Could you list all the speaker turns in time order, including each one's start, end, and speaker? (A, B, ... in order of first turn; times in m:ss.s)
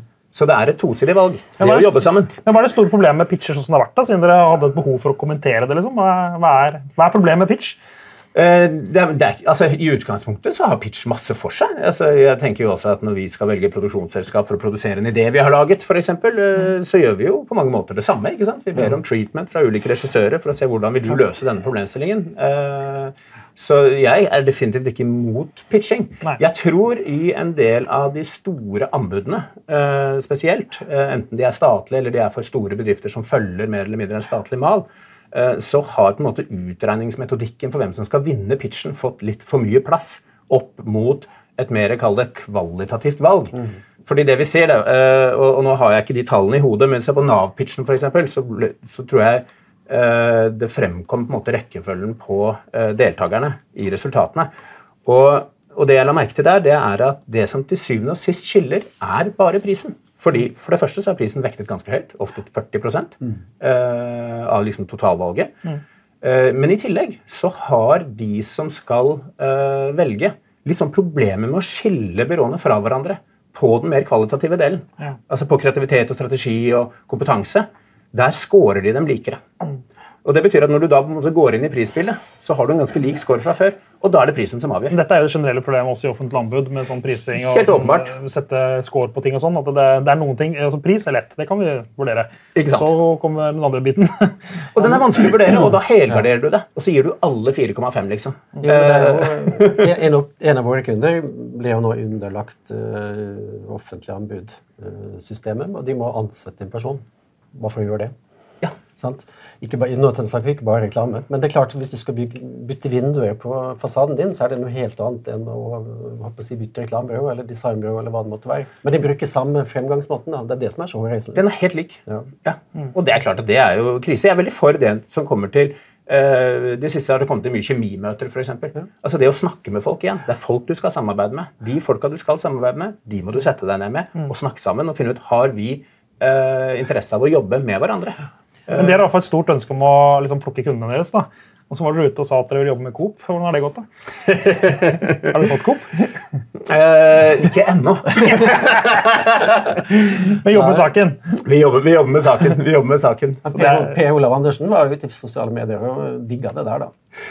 0:00.3-0:02.3 A
0:01.6-0:07.8 B
0:08.3-0:54.5 A
0:55.0-1:05.5 A
1:06.2-1:19.4 A
1:20.2-1:25.0 A
1:24.9-1:34.9 B
1:27.4-1:28.1 A
1:32.6-1:32.9 A
1:34.8-1:39.9 A
1:38.6-1:48.1 C
1:49.0-2:01.5 C
2:01.4-2:19.0 A
2:18.7-2:23.9 B
2:24.3-2:25.1 A
2:24.4-2:26.1 B
2:26.6-2:29.8 A
2:28.2-2:29.0 B
2:29.7-2:31.2 B
2:30.5-2:30.8 C
2:31.4-2:33.5 A
2:33.4-2:36.9 C
2:33.6-2:33.9 B